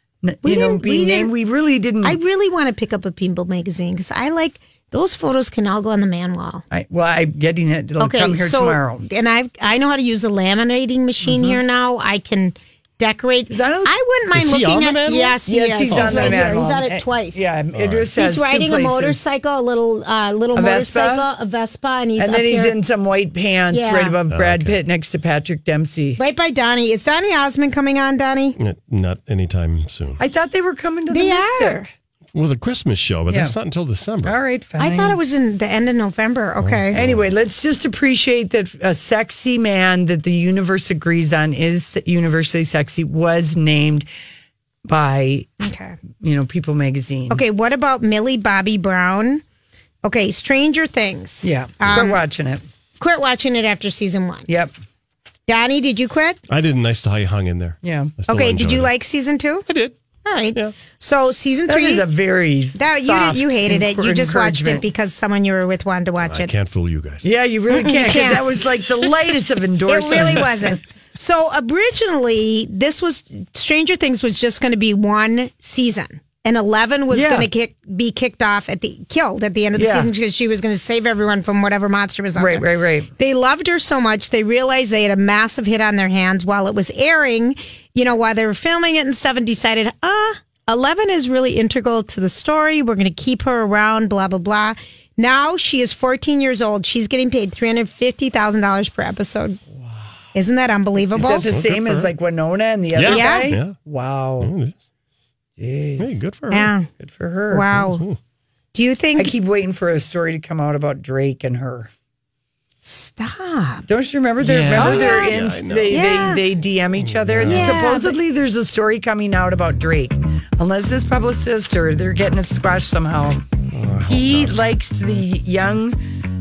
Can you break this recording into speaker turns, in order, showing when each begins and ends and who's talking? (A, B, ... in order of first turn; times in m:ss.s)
0:00.2-0:02.2 A
0:00.4-0:01.3 B
0:02.0-0:06.6 B
0:06.7-0:09.0 A
0:08.0-0:17.5 B
0:11.2-0:11.6 A
0:13.5-0:14.0 A
0:14.3-0:16.5 C
0:15.4-0:19.2 A
0:17.8-0:18.1 C
0:18.1-0:22.7 B
0:20.5-0:21.3 A
0:22.2-0:26.2 A
0:23.7-0:24.2 B
0:24.3-0:24.8 C
0:26.2-0:28.6 B
0:28.6-0:30.2 C
0:30.2-0:31.8 A
0:31.1-0:31.9 B
0:32.3-0:34.4 C
0:33.3-0:33.5 A
0:34.2-0:35.2 A
0:34.8-0:37.0 B
0:36.6-0:37.3 C
0:36.9-0:44.0 A
0:44.8-0:45.5 A
0:45.6-0:46.0 B
0:46.2-0:47.4 A
0:47.3-0:49.4 B
0:50.0-0:52.2 B
0:51.4-0:52.6 A
0:53.0-0:54.5 B
0:55.5-0:56.4 B
0:56.5-0:58.9 C
0:57.8-0:58.1 A
0:58.3-0:59.7 B
0:59.7-1:00.0 C
1:00.2-1:02.0 B
1:01.7-1:04.9 A
1:02.8-1:06.5 B
1:06.3-1:07.2 C
1:07.2-1:10.8 A
1:07.7-1:08.6 B
1:09.9-1:22.6 B
1:17.1-1:17.5 A
1:19.7-1:20.1 A
1:22.4-1:23.1 A
1:23.2-1:39.6 B
1:40.3-1:41.5 B
1:41.1-1:42.1 C
1:41.1-1:44.5 A
1:42.9-1:43.8 C
1:43.0-1:43.5 B
1:44.4-1:44.7 C
1:45.6-1:46.2 A
1:46.0-1:46.7 C
1:46.5-1:46.9 B
1:47.0-1:47.7 A
1:47.5-1:48.0 B
1:47.7-1:48.2 C
1:48.7-1:49.3 B
1:49.2-1:51.9 A
1:52.8-1:53.8 B
1:53.9-2:03.4 A
1:54.4-1:56.3 C
1:54.7-1:56.4 B
1:57.0-1:57.8 C
1:57.4-1:58.2 B
2:03.7-2:04.6 C
2:04.0-2:06.0 A